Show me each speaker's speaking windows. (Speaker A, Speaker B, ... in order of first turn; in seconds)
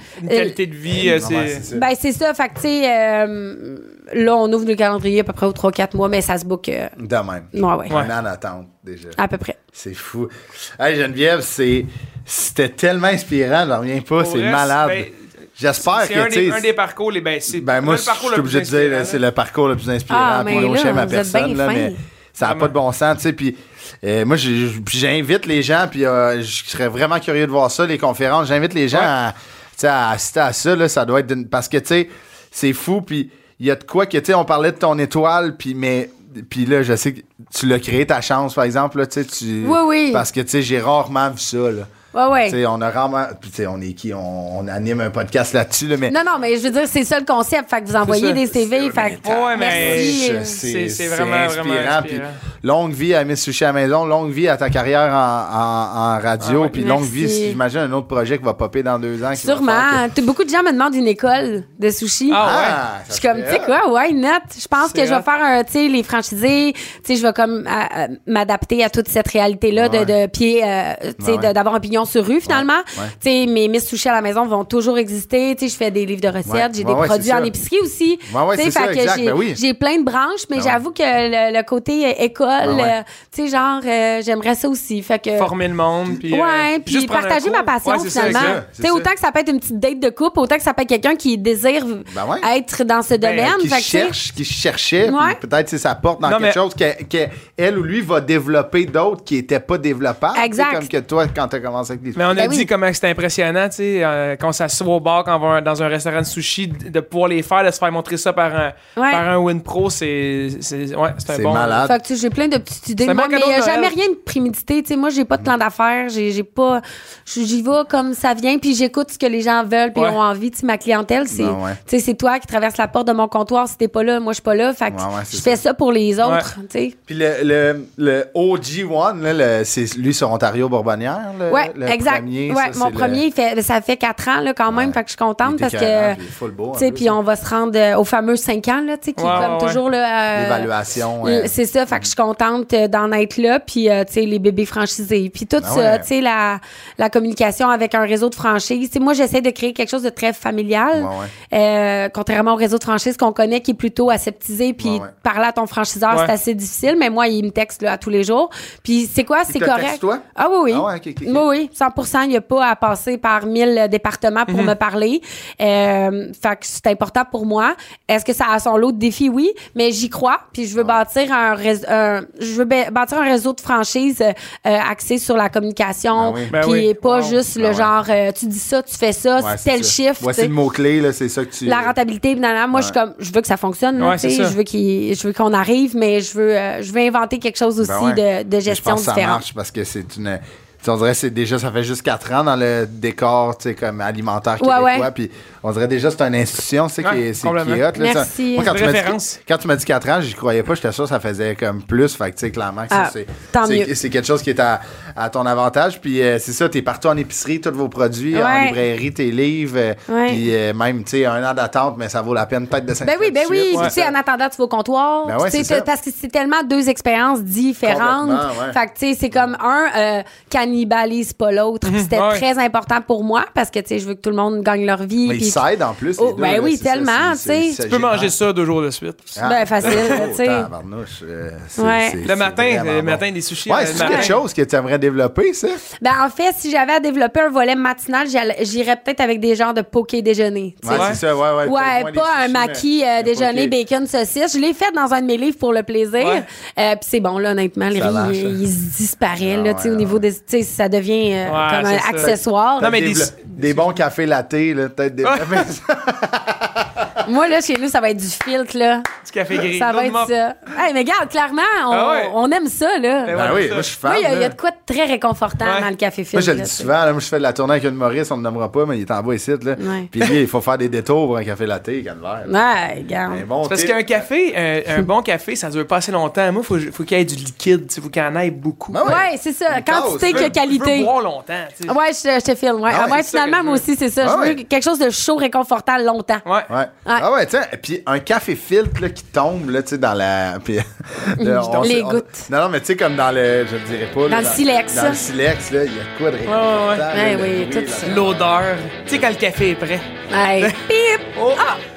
Speaker A: 0.2-1.7, 14.2-15.2, 15.8-19.2, 22.4-22.7, 48.0-48.4, 49.2-52.4, 56.4-56.8, 62.3-62.8, 64.8-65.2, 85.4-88.6, 93.2-93.5, 96.2-96.6, 102.2-111.8, 113.0-113.9, 126.2-126.5, 139.2-139.8, 164.5-164.7, 176.5-177.4, 184.0-184.6, 197.0-197.9, 198.6-199.4, 221.8-222.4, 227.9-230.2, 232.2-234.4, 240.9-241.2, 246.2-246.4, 251.5-253.9, 255.2-255.7, 259.2-260.3, 261.9-262.3, 263.2-263.9, 265.6-265.9, 273.7-279.2, 280.3-281.9, 283.1-283.8, 286.4-286.7, 291.6-292.0, 296.5-297.1, 298.0-300.8
Speaker B: 0.2-0.6, 1.7-7.0, 7.5-7.9, 9.2-9.6, 20.1-22.0, 39.6-40.2, 42.1-42.6, 46.1-50.6, 56.7-57.6, 59.4-62.4, 63.1-85.5, 86.3-94.2, 95.0-95.4, 100.3-100.9, 102.3-102.7, 109.0-109.2, 111.8-127.0, 131.5-136.2, 136.8-140.7, 141.2-180.5, 181.6-189.4, 194.6-195.1, 197.9-198.7, 202.9-203.9, 208.3-208.8, 210.1-210.4, 213.0-225.6, 226.2-227.8, 229.4-230.7, 231.8-232.2, 233.9-234.3, 236.0-252.9, 257.2-259.1, 259.7-263.4, 264.0-266.9, 269.8-270.1, 272.5-273.4, 279.1-281.1, 281.9-286.4, 291.4-292.5, 294.3-295.2, 297.1-298.2, 300.3-301.8
Speaker C: 0.9-1.9, 7.0-9.2, 9.7-16.7, 17.5-41.9, 42.5-46.2, 48.5-60.1, 62.4-63.7, 69.8-70.1, 71.2-71.5, 72.5-73.1, 76.5-77.5, 78.3-79.6, 82.6-83.0, 88.2-89.1, 92.1-92.5, 93.4-102.5, 111.3-112.0, 121.3-121.8, 124.9-125.6, 127.1-133.2, 134.7-137.2, 140.3-142.1, 145.6-146.1, 150.9-151.3, 154.8-155.1, 159.5-161.5, 176.1-176.5, 177.6-177.9, 179.4-181.9, 187.8-214.1, 215.2-215.9, 217.8-218.8, 225.2-228.3, 229.3-235.8, 240.8-243.7, 247.9-248.6, 249.4-250.2, 252.3-257.2, 263.3-264.6, 266.3-272.5, 273.3-274.1, 278.9-280.6, 282.9-283.2, 284.2-284.6, 286.7-298.6, 301.4-301.6